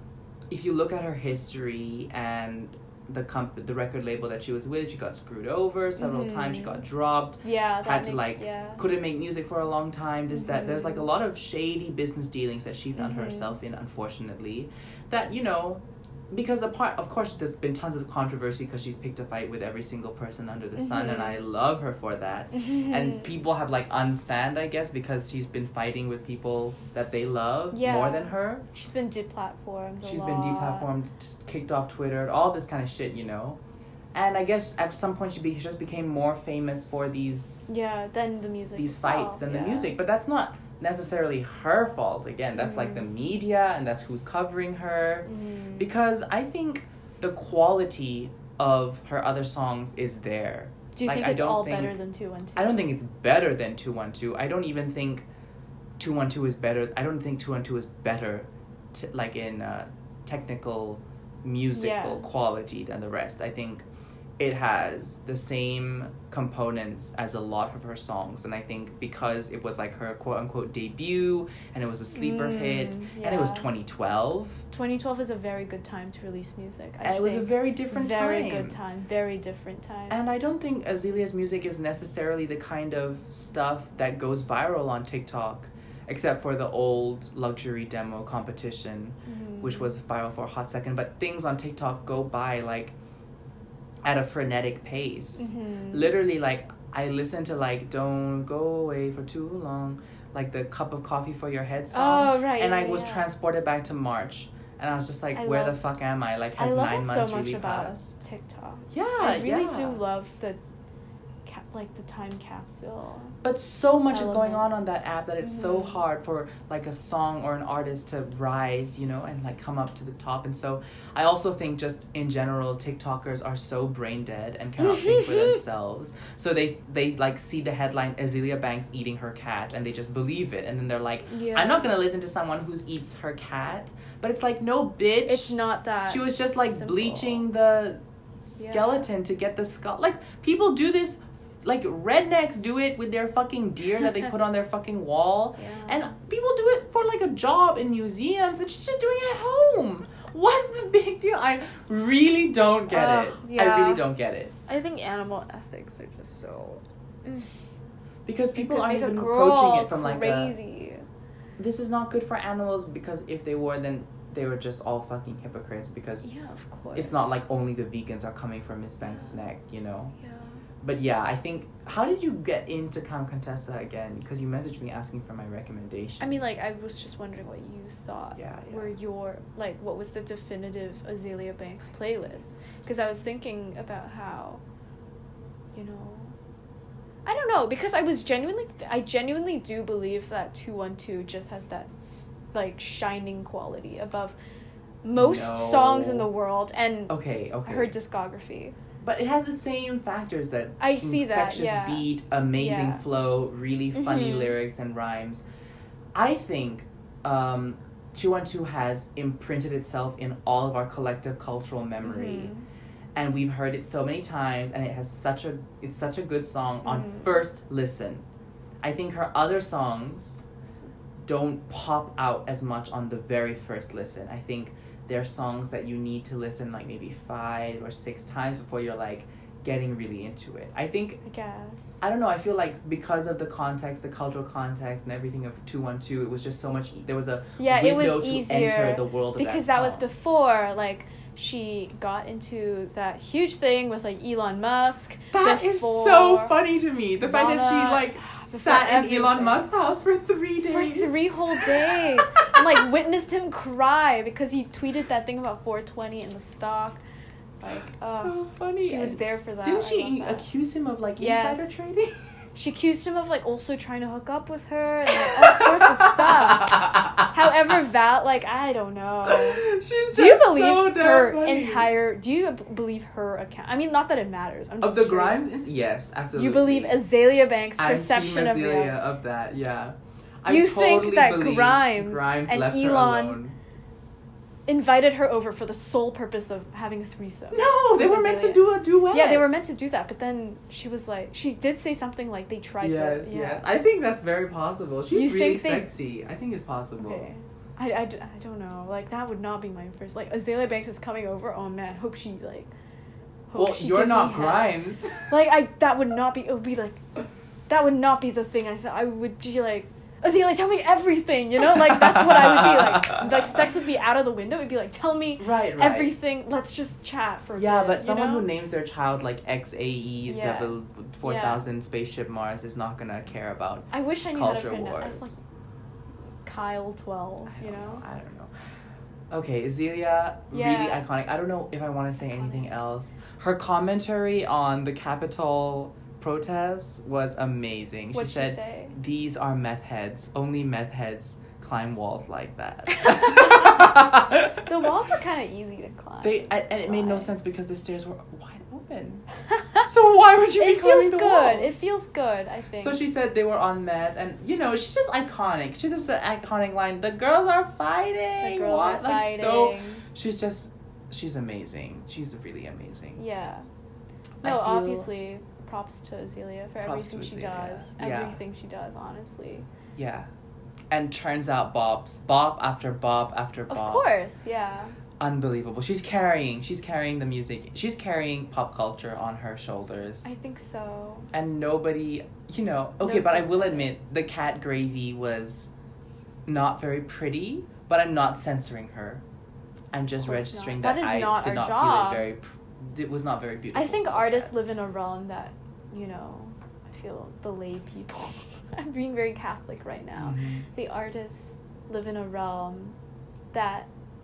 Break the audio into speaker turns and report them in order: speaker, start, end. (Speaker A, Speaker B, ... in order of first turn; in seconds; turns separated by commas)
Speaker A: 0.5-28.6, Speaker B: 6.0-6.8, Speaker B: 7.4-8.8, Speaker B: 10.3-11.1, Speaker B: 13.0-13.5, Speaker B: 20.8-21.4, Speaker B: 22.5-23.3, Speaker B: 27.7-30.9, Speaker A: 30.0-33.6, Speaker A: 34.1-37.6, Speaker B: 37.7-40.0, Speaker A: 38.7-52.0, Speaker B: 42.6-43.1, Speaker B: 45.3-45.9, Speaker B: 51.0-52.8, Speaker A: 52.6-55.3, Speaker A: 56.0-63.9, Speaker B: 61.7-62.3, Speaker A: 64.4-74.6, Speaker B: 72.1-73.7, Speaker B: 74.7-80.2, Speaker A: 77.0-78.8, Speaker A: 80.1-93.0, Speaker B: 89.3-89.9, Speaker A: 94.0-108.2, Speaker B: 95.4-96.1, Speaker B: 101.9-103.3, Speaker B: 105.3-105.8, Speaker B: 106.6-110.6, Speaker A: 108.9-110.0, Speaker B: 111.5-113.4, Speaker A: 113.4-154.5, Speaker B: 114.1-114.7, Speaker B: 115.4-116.0, Speaker B: 124.8-125.6, Speaker B: 131.3-131.9, Speaker B: 135.3-137.5, Speaker B: 138.6-139.0, Speaker B: 145.6-146.1, Speaker B: 152.9-154.0, Speaker B: 154.7-157.5, Speaker A: 158.3-160.6, Speaker B: 158.5-161.1, Speaker A: 161.6-166.3, Speaker B: 166.2-167.4, Speaker A: 166.9-170.2, Speaker B: 170.2-170.6, Speaker A: 170.8-176.6, Speaker B: 176.2-184.6, Speaker A: 178.3-178.9, Speaker B: 185.7-186.3, Speaker B: 187.3-194.4, Speaker B: 195.0-198.8, Speaker A: 195.2-196.3, Speaker A: 197.1-197.9, Speaker A: 199.0-205.4, Speaker B: 200.8-203.0, Speaker B: 203.9-204.5, Speaker A: 206.2-212.5, Speaker B: 212.0-212.7, Speaker A: 213.2-218.2, Speaker B: 216.8-217.3, Speaker A: 218.8-220.4, Speaker B: 220.7-220.9, Speaker A: 221.2-231.2, Speaker B: 231.2-232.0, Speaker A: 232.0-240.1, Speaker B: 237.6-246.6, Speaker A: 245.3-252.8, Speaker B: 247.2-249.7, Speaker B: 250.7-257.0, Speaker B: 257.6-260.5, Speaker A: 257.7-262.2, Speaker B: 261.2-261.7, Speaker B: 262.6-275.4, Speaker A: 265.1-267.3, Speaker A: 269.3-271.9, Speaker A: 274.8-277.0, Speaker B: 276.4-279.0, Speaker A: 277.8-283.6, Speaker B: 280.4-283.4, Speaker B: 284.7-293.6, Speaker A: 287.5-289.6, Speaker A: 292.8-297.3, Speaker B: 295.1-295.9, Speaker B: 297.0-302.7, Speaker B: 303.5-307.1, Speaker A: 303.5-305.3, Speaker B: 307.7-318.5, Speaker A: 311.6-313.5, Speaker A: 315.4-316.1, Speaker A: 317.6-325.4, Speaker B: 320.3-321.6, Speaker B: 323.9-325.4, Speaker B: 326.4-328.0, Speaker A: 327.5-328.5, Speaker A: 329.3-344.8, Speaker B: 330.5-331.0, Speaker B: 338.1-338.9, Speaker B: 343.0-343.9, Speaker B: 344.6-347.3, Speaker A: 346.2-349.2, Speaker A: 349.8-351.7, Speaker B: 350.6-353.0, Speaker A: 352.8-363.2, Speaker B: 358.4-360.1, Speaker B: 363.2-363.7, Speaker A: 364.4-365.1, Speaker B: 364.4-369.7, Speaker A: 366.8-368.4, Speaker A: 370.0-370.3, Speaker A: 370.9-374.1, Speaker B: 373.7-375.0, Speaker A: 375.2-380.3, Speaker B: 380.2-381.3, Speaker A: 381.3-385.7, Speaker B: 383.0-383.9, Speaker A: 386.5-389.2, Speaker A: 389.9-394.6, Speaker B: 390.2-392.3, Speaker B: 393.7-403.0, Speaker A: 400.2-400.7, Speaker B: 403.5-403.9